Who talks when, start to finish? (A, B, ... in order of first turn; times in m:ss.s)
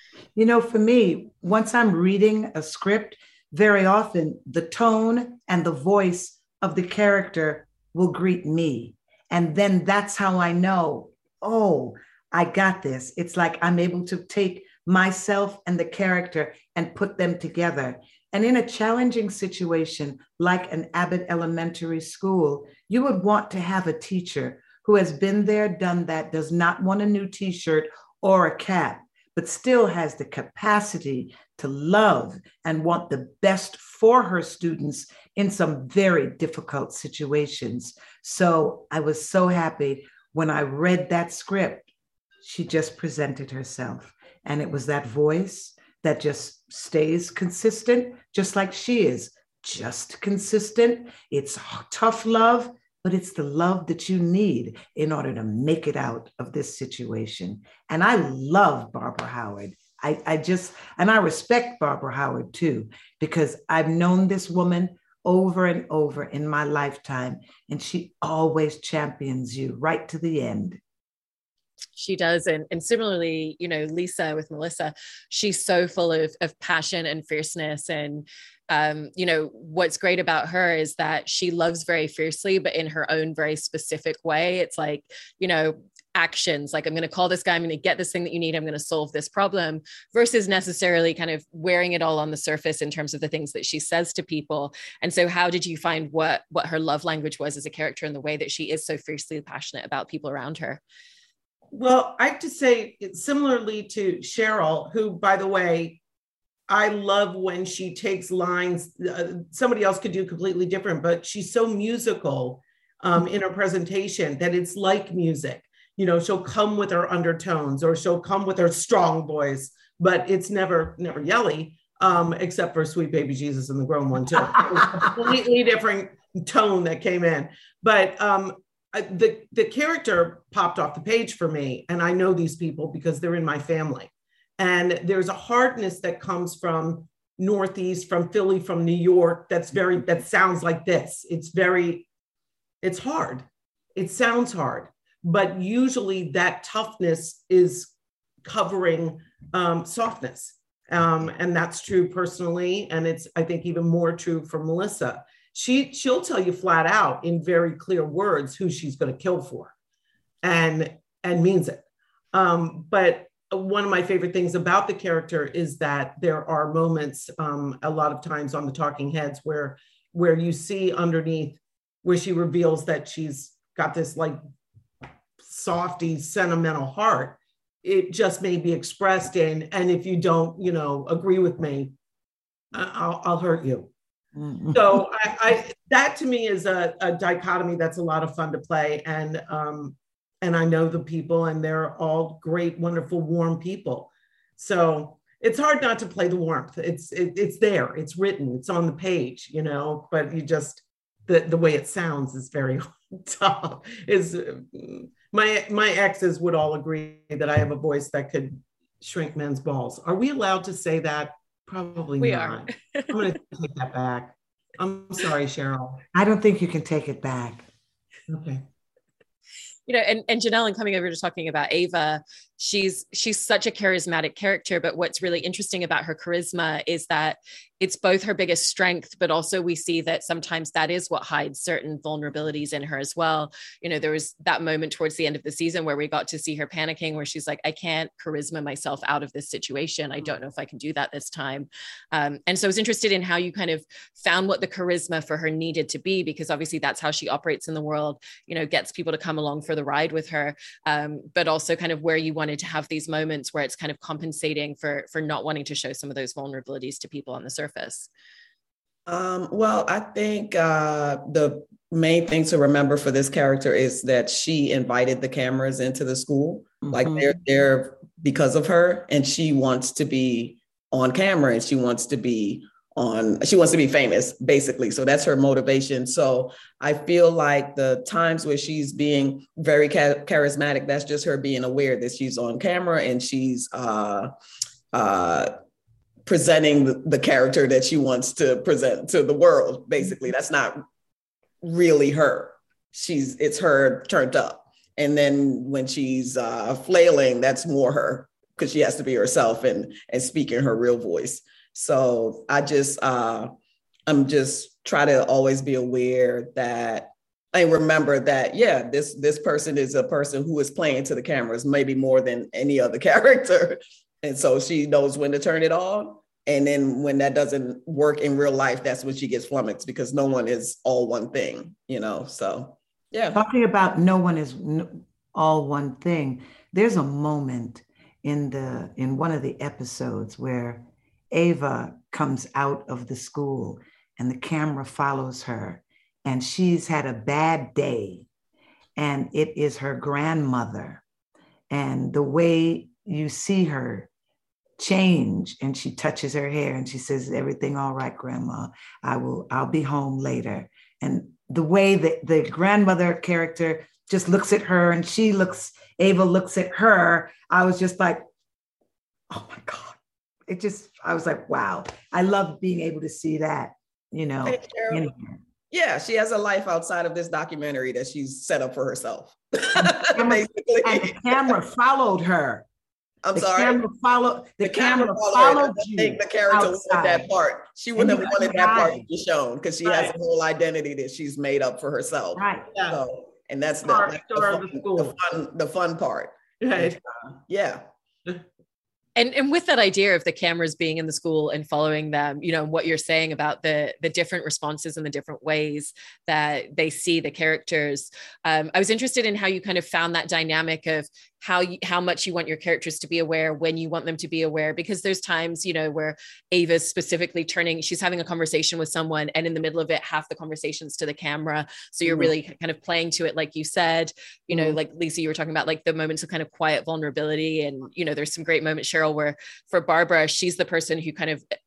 0:00.4-0:41.9 A
0:42.4-1:10.8 A
1:11.9-1:40.8 B
1:41.7-1:46.0 C
1:46.7-2:22.1 C
2:22.8-2:27.9 C
2:28.4-2:39.7 C
2:40.4-2:41.8 C
2:42.3-2:54.4 C
2:55.4-3:01.9 C
3:02.7-3:03.9 C
3:04.4-3:05.0 A
3:04.7-3:36.0 C
3:32.2-3:33.2 B
3:36.1-3:37.6 A
3:38.3-3:38.6 C
3:39.9-4:18.1 B
4:19.1-4:44.3 D
4:26.8-4:27.3 A
4:44.9-4:45.5 D
4:46.2-4:50.8 D
4:51.6-5:03.5 D
5:04.1-5:23.4 D
5:23.3-5:38.2 A
5:39.0-5:41.0 A
5:41.7-5:44.1 A
5:44.8-5:58.2 A
5:59.3-6:05.3 A
6:04.4-6:05.0 D
6:05.7-6:11.6 D
6:09.8-6:12.6 A
6:13.2-6:13.8 D
6:13.3-6:17.2 A
6:14.6-6:27.8 D
6:18.0-6:19.0 A
6:19.8-6:20.1 C
6:22.3-6:22.7 A
6:22.7-6:23.0 C
6:23.8-6:25.1 C
6:26.6-6:27.0 C
6:29.2-7:01.4 B